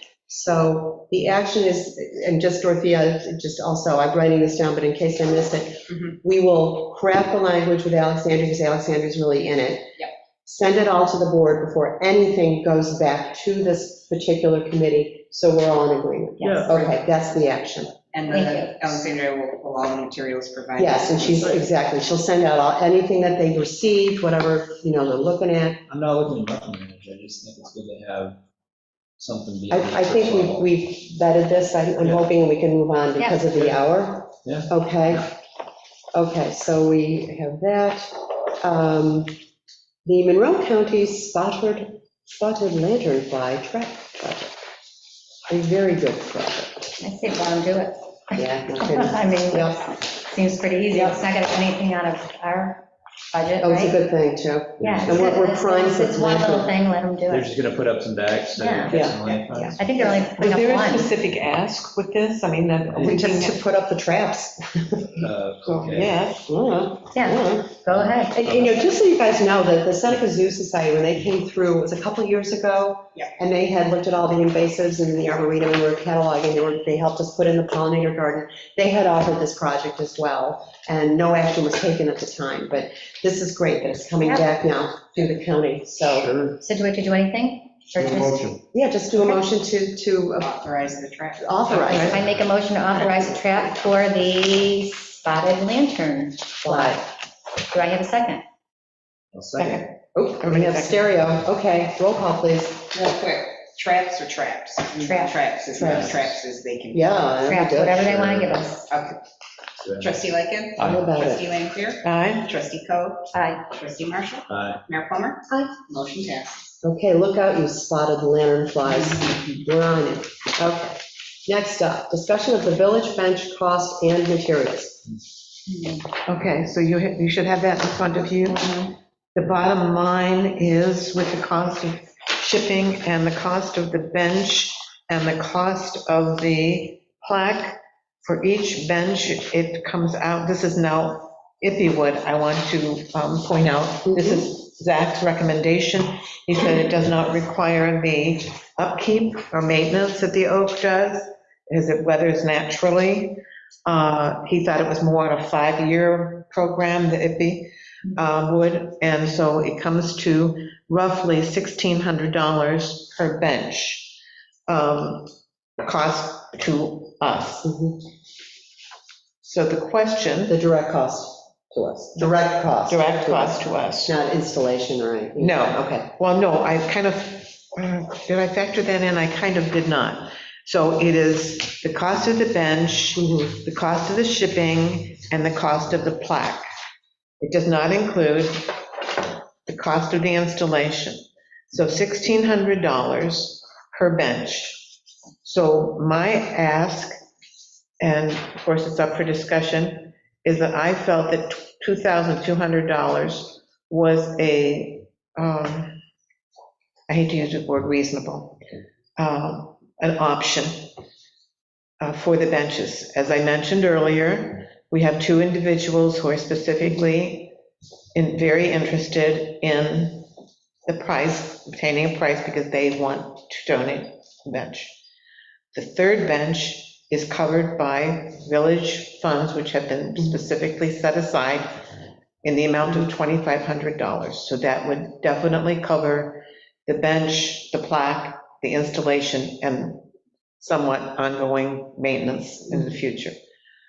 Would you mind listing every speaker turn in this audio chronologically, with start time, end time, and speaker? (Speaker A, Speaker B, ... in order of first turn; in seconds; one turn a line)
Speaker A: 0.3-9.9
Speaker A: 10.4-17.9
Speaker B: 16.4-16.7
Speaker C: 16.4-16.8
Speaker D: 18.1-21.6
Speaker B: 18.3-19.0
Speaker A: 20.8-25.8
Speaker C: 21.4-21.6
Speaker C: 25.9-28.4
Speaker C: 29.2-30.7
Speaker A: 29.7-35.3
Speaker C: 32.0-32.3
Speaker B: 33.2-33.5
Speaker C: 33.5-33.8
Speaker C: 34.4-34.7
Speaker A: 36.1-38.1
Speaker A: 38.6-39.3
Speaker A: 40.0-44.6
Speaker A: 45.5-46.9
Speaker B: 47.0-54.0
Speaker A: 48.4-49.9
Speaker A: 50.9-51.2
Speaker A: 53.6-56.7
Speaker C: 54.8-55.2
Speaker B: 54.8-57.5
Speaker C: 57.3-59.8
Speaker B: 58.6-59.0
Speaker A: 58.9-60.2
Speaker B: 59.7-61.1
Speaker E: 60.4-63.6
Speaker C: 62.9-63.2
Speaker A: 63.0-65.3
Speaker C: 65.2-66.3
Speaker E: 65.7-66.5
Speaker A: 66.5-86.4
Speaker B: 67.1-68.5
Speaker C: 67.9-68.7
Speaker B: 84.2-84.5
Speaker B: 86.5-88.5
Speaker A: 88.7-90.5
Speaker B: 89.1-89.5
Speaker D: 90.4-91.9
Speaker A: 91.4-92.2
Speaker B: 91.7-97.1
Speaker E: 91.8-92.2
Speaker E: 92.9-93.2
Speaker A: 96.6-97.0
Speaker B: 97.7-98.4
Speaker C: 99.3-99.9
Speaker E: 99.6-101.1
Speaker A: 100.1-102.9
Speaker D: 102.9-107.3
Speaker B: 105.0-105.4
Speaker A: 105.8-106.3
Speaker C: 105.9-106.3
Speaker A: 106.9-108.2
Speaker B: 107.5-108.9
Speaker C: 108.0-108.6
Speaker D: 108.9-109.2
Speaker C: 109.8-110.2
Speaker D: 110.0-116.7
Speaker C: 110.8-111.1
Speaker A: 110.8-111.5
Speaker E: 112.0-112.5
Speaker B: 113.3-113.7
Speaker C: 114.5-114.8
Speaker A: 115.5-115.8
Speaker A: 116.8-125.1
Speaker D: 118.9-119.2
Speaker E: 126.3-128.8
Speaker E: 129.3-167.7
Speaker A: 144.1-144.4
Speaker A: 167.7-168.0
Speaker E: 169.4-170.6
Speaker A: 170.5-176.1
Speaker E: 172.2-174.1
Speaker E: 175.4-186.6
Speaker A: 183.2-183.5
Speaker E: 187.4-188.7
Speaker E: 189.7-191.2
Speaker E: 191.7-194.9
Speaker E: 195.4-197.1
Speaker E: 198.0-206.0
Speaker E: 207.1-208.6
Speaker E: 209.2-210.7
Speaker E: 212.0-217.5
Speaker E: 218.2-220.3
Speaker E: 220.9-224.9
Speaker E: 225.7-231.8
Speaker E: 232.4-240.0
Speaker E: 240.6-243.3